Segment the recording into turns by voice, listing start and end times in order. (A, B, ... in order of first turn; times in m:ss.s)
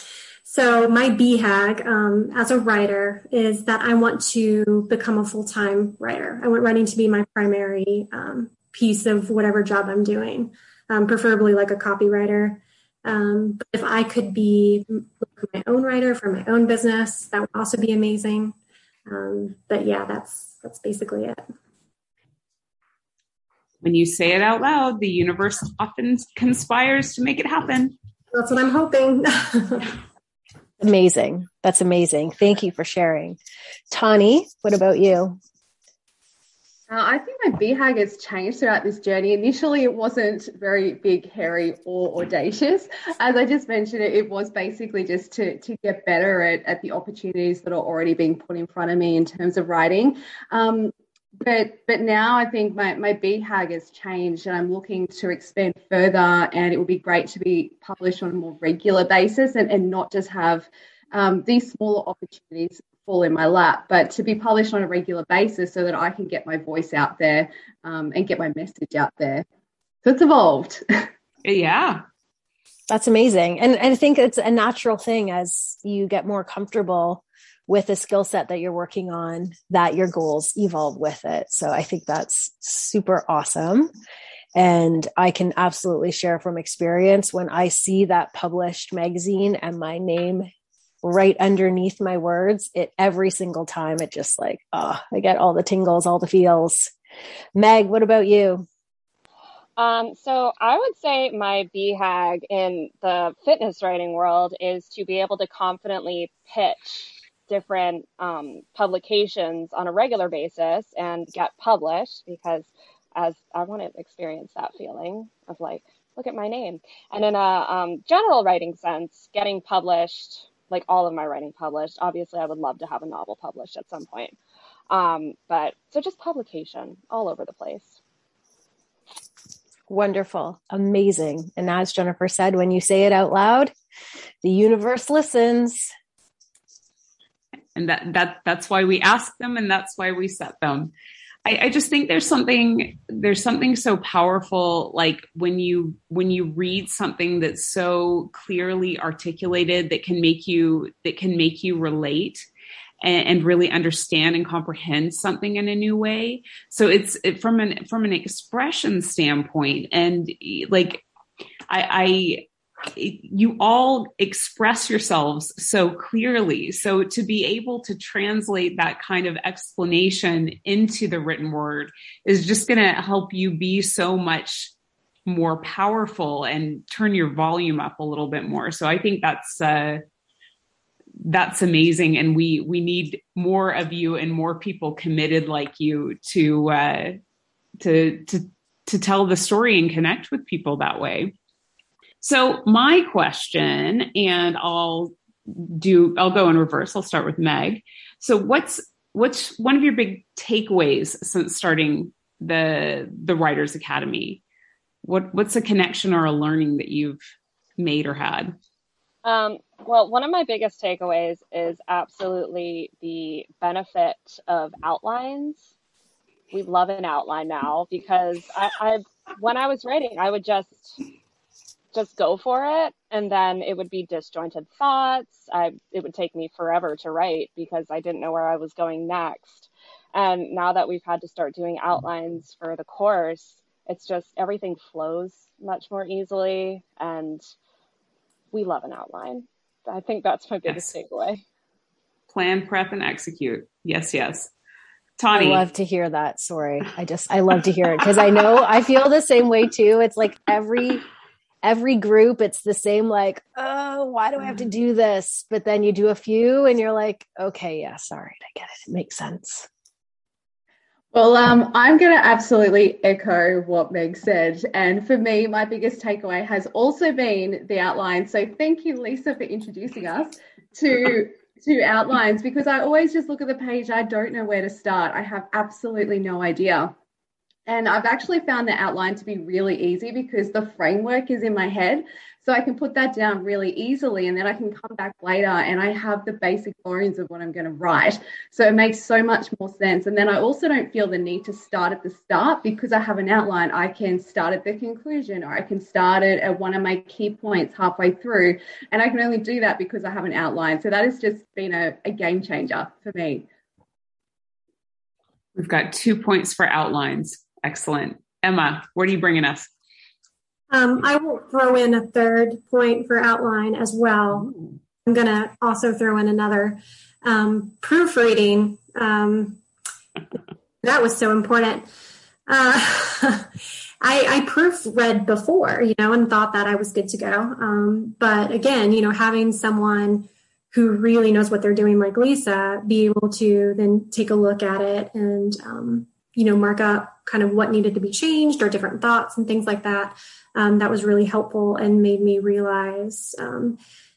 0:00.4-0:18.6 A
0:19.1-0:21.4 A
0:23.8-0:27.9 B
0:28.3-0:29.9 A
0:30.8-0:33.4 C
0:33.9-0:35.4 C
0:36.9-1:09.4 D
1:10.0-1:11.1 D
1:11.4-1:12.0 B
1:12.9-1:23.9 C
1:24.5-1:30.5 C
1:31.0-1:36.9 C
1:37.5-1:38.6 C
1:39.8-2:04.3 E
2:04.9-2:08.0 E
2:09.9-2:13.7 C
2:14.4-2:15.9 C
2:17.7-2:20.9 B
2:21.4-2:32.5 B
2:33.0-2:41.0 B
2:41.7-2:54.7 B
2:55.2-3:00.0 B
3:01.2-3:07.2 B
3:07.8-3:11.3 B
3:12.2-3:24.4 B
3:25.0-3:27.2 B
3:27.8-3:28.5 B
3:29.2-3:35.7 E
3:36.5-3:41.0 E
3:41.9-3:57.4 E
3:58.5-4:01.4 E
4:02.3-4:04.5 B
4:05.2-4:05.6 B
4:05.3-4:11.0 C
4:11.6-4:19.7 C
4:21.1-4:36.9 D
4:37.6-5:03.4 D
5:05.5-5:09.7 B
5:10.7-5:19.6 A
5:20.8-5:21.9 A
5:22.5-5:23.5 A
5:24.0-5:43.8 A